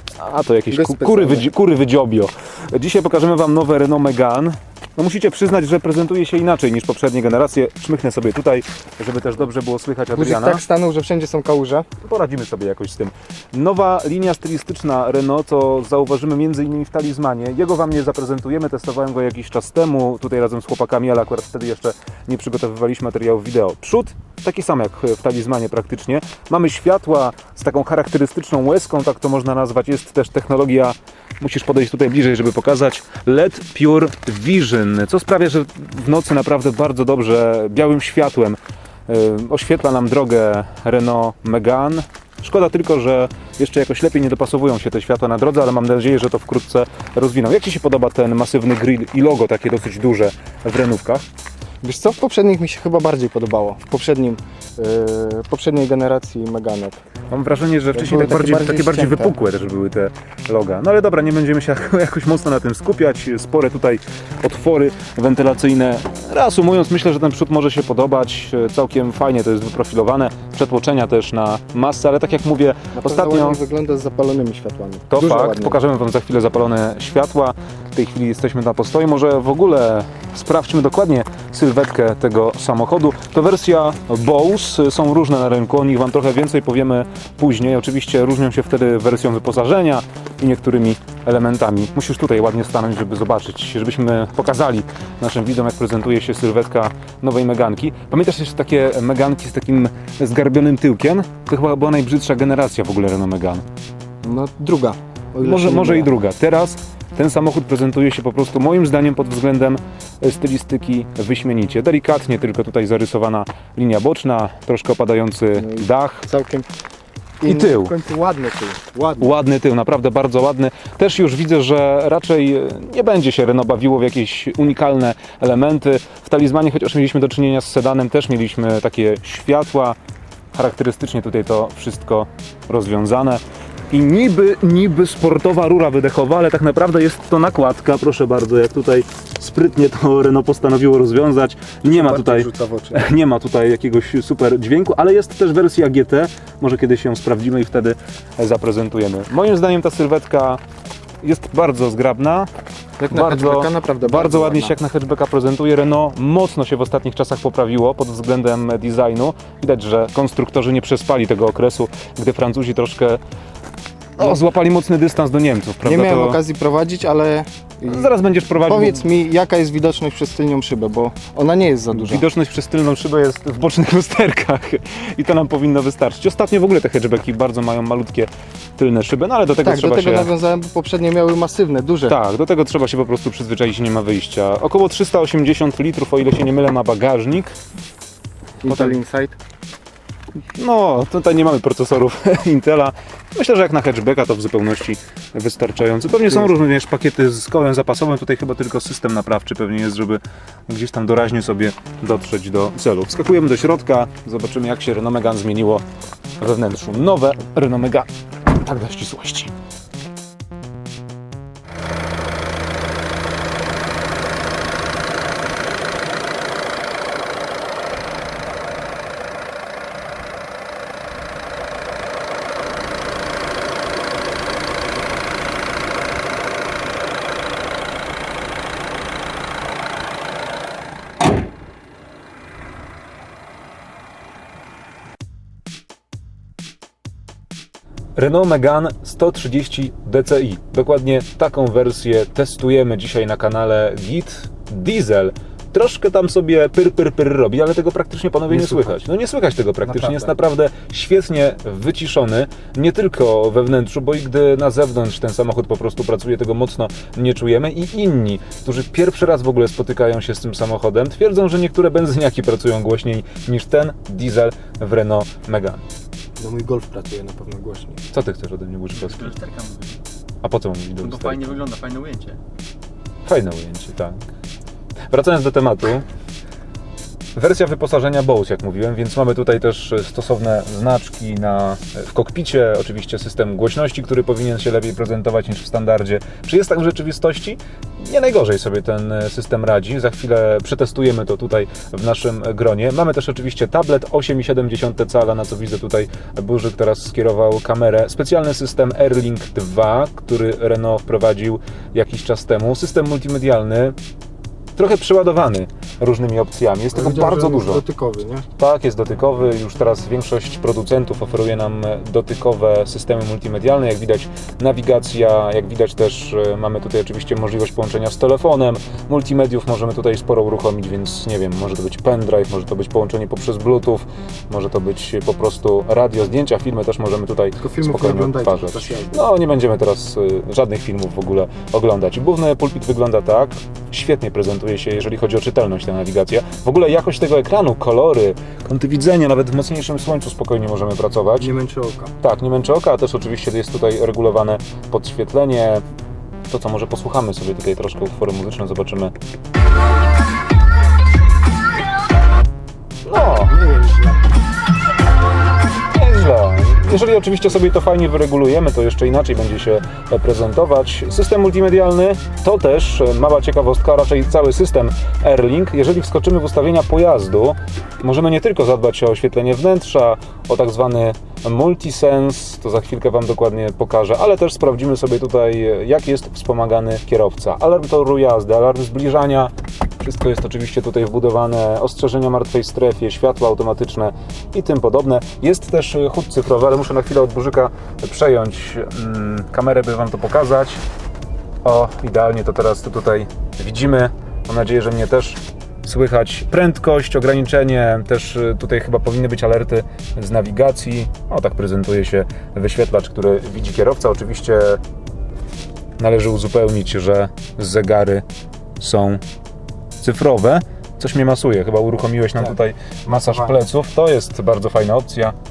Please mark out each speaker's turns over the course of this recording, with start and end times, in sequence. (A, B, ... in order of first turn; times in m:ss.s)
0:00.2-0:10.6 A
0:00.7-0:01.5 B
0:10.1-0:11.8 B
0:12.0-0:51.2 A
0:51.8-0:57.0 B
0:57.3-1:13.6 A
0:57.9-0:59.4 B
1:12.9-1:15.8 B
1:15.1-1:43.6 A
1:44.2-1:46.1 B
1:45.4-1:56.3 A
1:55.5-1:56.7 B
1:57.4-1:59.3 B
1:57.4-1:57.9 A
1:59.2-2:10.0 A
2:10.5-2:30.6 A
2:21.8-2:23.0 B
2:31.2-2:32.5 A
2:33.0-2:34.7 B
2:33.1-2:43.2 A
2:44.2-2:46.4 A
2:45.8-2:52.2 B
2:47.8-2:49.1 A
2:51.9-3:00.3 A
2:59.6-3:02.2 B
3:02.0-3:07.5 A
3:08.6-3:09.4 B
3:08.6-3:09.0 A
3:10.6-3:25.8 A
3:26.4-3:29.5 A
3:58.2-4:25.8 A
4:08.5-4:08.9 B
4:09.9-4:10.3 B
4:26.4-4:28.0 B
4:28.1-4:29.4 A
4:29.0-4:30.0 C
4:30.4-4:31.6 A
4:31.0-4:32.4 C
4:33.2-4:34.2 A
4:35.1-4:36.0 A
4:37.4-5:04.0 A
5:04.8-5:07.8 A
5:06.9-5:08.4 B
5:08.6-5:41.5 A
5:27.6-5:29.3 B
5:41.4-5:42.1 B
5:42.2-5:45.8 A
5:46.5-5:49.1 A
5:53.0-5:53.5 A
5:53.4-5:54.2 B
5:55.9-6:30.8 A
6:31.6-6:44.8 A
6:46.0-6:48.2 A
6:48.8-6:49.2 A
6:50.0-6:55.4 A
6:53.1-6:53.5 B